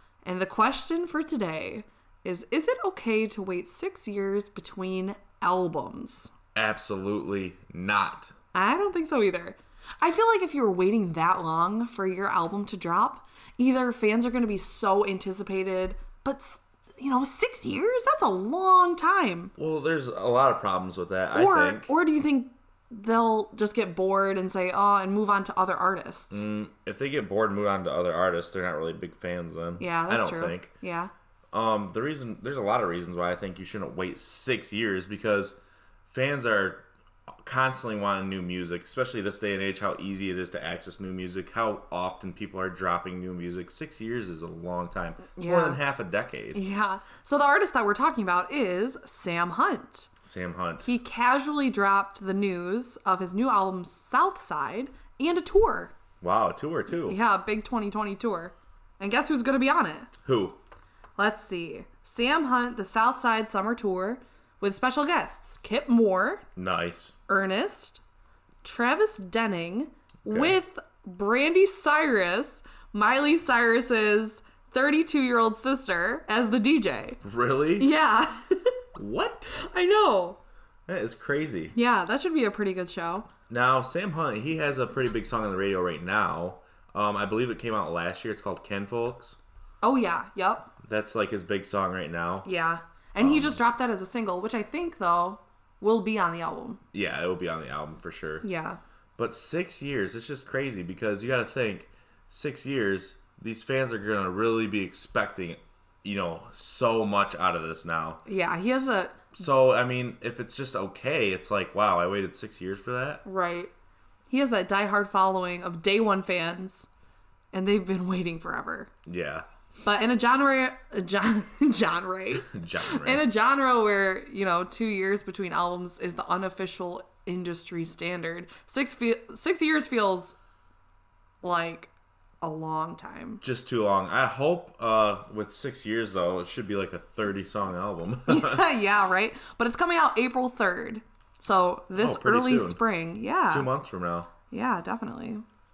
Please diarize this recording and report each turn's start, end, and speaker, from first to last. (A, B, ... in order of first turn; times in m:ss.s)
0:00.2-0:06.3 A
0:06.6-0:08.3 B
0:08.5-0:19.5 A
0:19.6-0:21.9 B
0:21.3-0:26.4 A
0:26.3-0:30.7 B
0:29.8-0:31.1 A
0:31.5-0:35.6 B
0:36.1-0:36.9 B
0:37.4-0:46.6 B
0:45.4-0:45.8 A
0:46.5-0:50.1 A
0:50.2-0:50.9 B
0:50.8-0:55.9 A
0:56.2-0:57.2 B
0:56.9-1:00.1 A
1:00.2-1:00.6 B
1:01.2-1:06.4 A
1:06.6-1:07.1 B
1:07.3-1:08.0 A
1:08.6-1:17.2 A
1:10.3-1:10.6 B
1:17.2-1:17.9 B
1:17.8-1:18.8 A
1:19.0-1:19.5 B
1:19.5-1:20.4 A
1:20.9-1:21.8 B
1:21.7-1:23.3 A
1:23.5-1:29.4 B
1:29.8-1:30.7 A
1:30.8-1:32.5 B
1:32.4-1:36.8 A
1:33.2-1:33.6 B
1:36.9-1:38.4 B
1:38.4-1:38.8 A
1:39.2-1:53.2 B
1:48.2-1:49.4 A
1:53.2-1:53.7 A
1:54.3-1:56.9 A
1:57.5-1:58.9 A
1:59.0-1:59.4 B
1:59.8-2:10.4 A
2:02.5-2:03.3 B
2:11.4-2:13.4 A
2:13.4-2:18.7 B
2:18.3-2:23.7 A
2:22.0-2:22.8 B
2:23.5-2:24.3 B
2:24.5-2:25.4 A